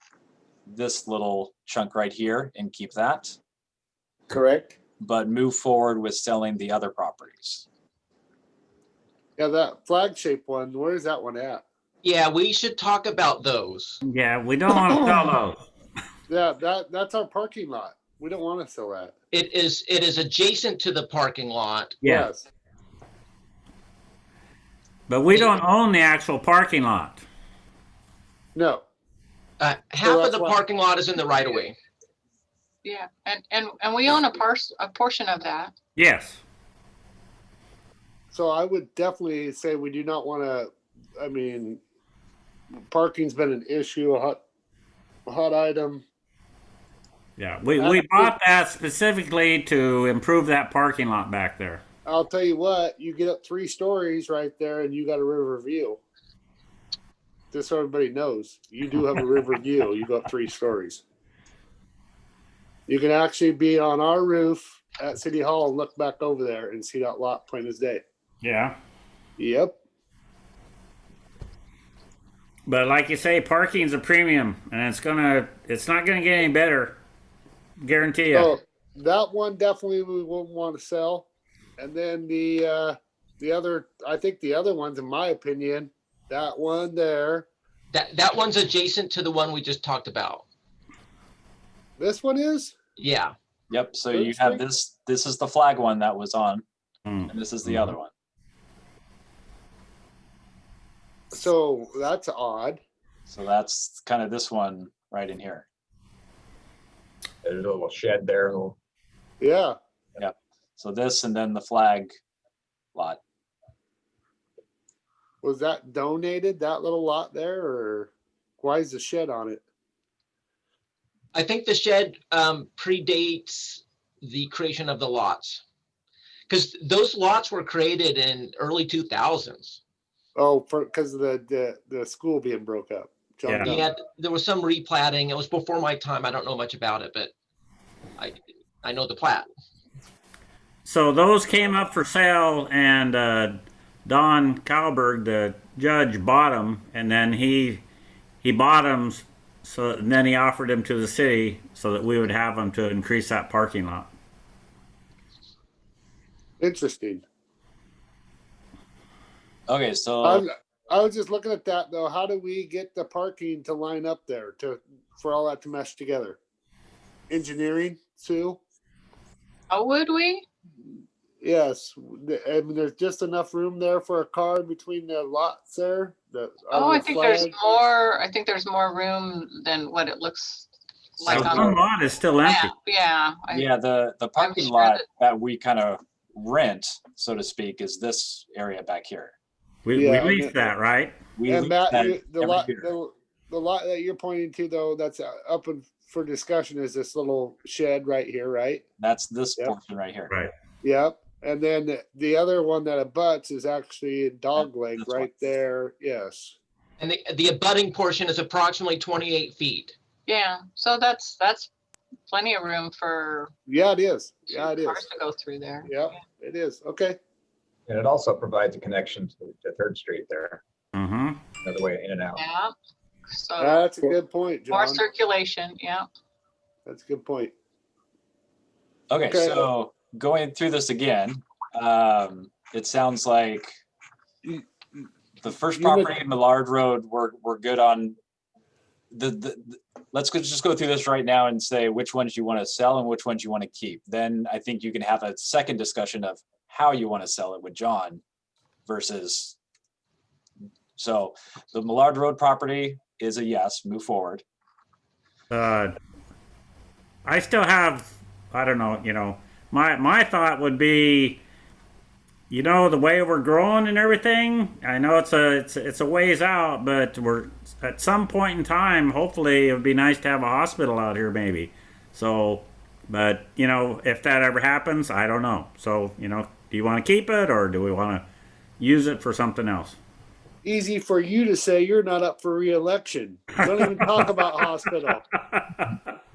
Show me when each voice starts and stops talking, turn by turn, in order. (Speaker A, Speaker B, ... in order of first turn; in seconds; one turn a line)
Speaker A: 0.7-3.4
Speaker B: 4.3-4.7
Speaker A: 5.0-7.7
Speaker B: 9.4-11.6
Speaker C: 12.0-14.0
Speaker D: 14.0-15.6
Speaker B: 16.3-19.1
Speaker C: 19.3-21.9
Speaker D: 22.0-22.3
Speaker B: 22.0-22.4
Speaker D: 25.1-27.2
Speaker B: 28.5-28.8
Speaker C: 29.6-31.8
Speaker B: 30.0-30.6
Speaker E: 32.8-35.7
Speaker D: 36.0-36.4
Speaker B: 38.3-41.8
Speaker B: 42.9-44.4
Speaker B: 45.3-46.0
Speaker D: 47.4-51.8
Speaker B: 47.8-48.3
Speaker B: 52.0-56.0
Speaker B: 57.5-61.0
Speaker B: 62.9-68.0
Speaker D: 68.4-68.8
Speaker B: 69.4-69.8
Speaker D: 72.7-77.0
Speaker D: 77.8-78.5
Speaker B: 78.3-81.3
Speaker B: 81.8-87.5
Speaker C: 87.9-90.4
Speaker B: 92.0-92.7
Speaker C: 93.0-93.3
Speaker A: 93.7-96.6
Speaker B: 94.1-94.6
Speaker D: 97.1-97.9
Speaker A: 97.3-98.1
Speaker B: 101.3-102.8
Speaker A: 103.3-105.7
Speaker F: 107.4-108.8
Speaker B: 109.4-109.8
Speaker A: 110.2-112.1
Speaker A: 112.9-113.2
Speaker B: 115.4-119.6
Speaker C: 121.3-125.6
Speaker C: 126.5-129.8
Speaker B: 130.3-133.9
Speaker D: 133.5-133.7
Speaker C: 133.6-137.3
Speaker C: 138.2-139.5
Speaker D: 140.8-147.8
Speaker D: 148.4-154.1
Speaker B: 156.6-157.2
Speaker A: 159.7-160.4
Speaker B: 160.2-166.4
Speaker B: 167.3-168.6
Speaker E: 169.7-170.4
Speaker B: 171.4-177.5
Speaker E: 176.7-181.8
Speaker A: 181.2-181.8
Speaker D: 181.3-182.7
Speaker E: 182.4-183.7
Speaker A: 183.5-189.3
Speaker E: 184.4-185.0
Speaker D: 189.8-191.2
Speaker B: 189.9-190.5
Speaker A: 191.4-192.9
Speaker B: 191.5-198.8
Speaker A: 199.0-200.3
Speaker B: 200.8-206.6
Speaker A: 204.6-205.3
Speaker C: 207.0-209.9
Speaker E: 210.3-211.7
Speaker E: 212.3-213.5
Speaker B: 213.7-215.0
Speaker E: 214.5-215.9
Speaker B: 215.8-217.2
Speaker F: 217.9-220.6
Speaker D: 220.9-221.4
Speaker F: 221.6-222.4
Speaker E: 222.3-222.7
Speaker E: 223.3-223.8
Speaker B: 223.6-225.0
Speaker E: 224.7-226.1
Speaker B: 226.8-227.5
Speaker A: 229.1-233.7
Speaker B: 229.3-229.7
Speaker B: 234.4-235.1
Speaker A: 235.4-238.2
Speaker B: 235.7-236.1
Speaker A: 239.1-248.2
Speaker A: 248.8-249.6
Speaker A: 251.0-254.4
Speaker D: 255.5-255.9
Speaker D: 257.2-261.4
Speaker D: 262.5-278.2
Speaker D: 278.8-280.0
Speaker B: 280.6-285.2